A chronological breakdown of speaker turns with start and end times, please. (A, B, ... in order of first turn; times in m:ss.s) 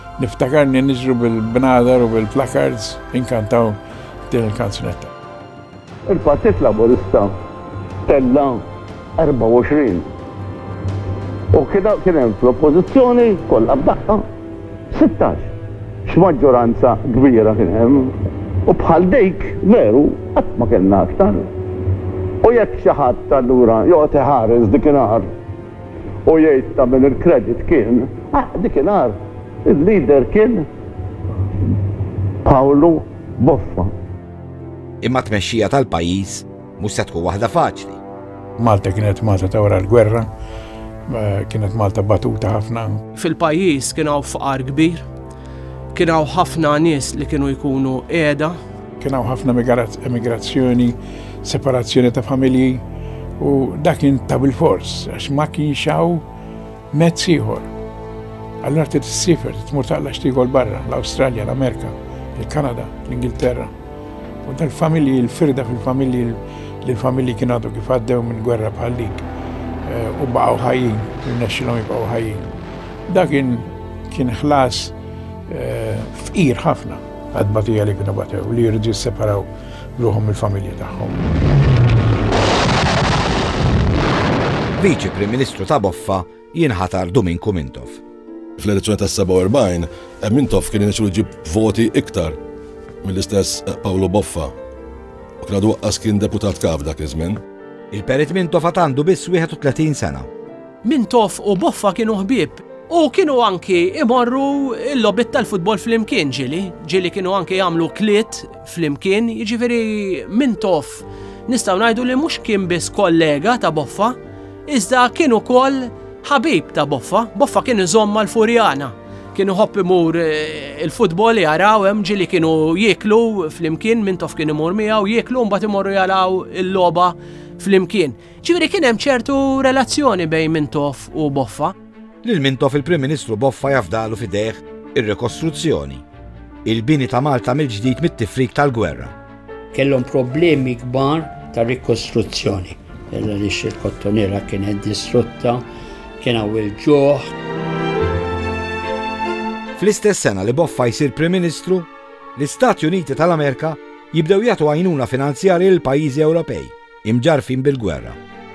0:00.2-0:05.1 A
0:06.1-0:07.4 B
0:08.1-0:08.6 B
0:09.2-0:10.1 B
0:11.5-0:14.3 B
0:14.9-0:15.5 B
0:16.1-0:21.5 B
0:22.4-0:25.3 B
0:26.3-0:30.7 B
0:32.4-0:34.0 B
0:35.0-0:38.0 C
0:38.6-0:40.3 A
0:41.1-0:43.0 A
0:43.2-0:45.1 D
0:45.9-0:48.6 D
0:49.0-0:52.8 A
0:53.4-0:56.2 A
0:56.9-0:57.7 A
0:58.6-1:03.7 A
1:04.4-1:09.2 A
1:09.8-1:12.5 A
1:13.1-1:15.0 A
1:15.5-1:21.2 A
1:24.8-1:28.0 C
1:28.6-1:32.4 E
1:33.0-1:34.5 E
1:35.4-1:37.4 E
1:37.9-1:40.3 C
1:40.8-2:11.8 D
2:12.2-2:16.0 C
2:16.6-2:19.1 C
2:19.7-2:25.7 F
2:26.2-2:27.3 F
2:29.8-2:38.2 C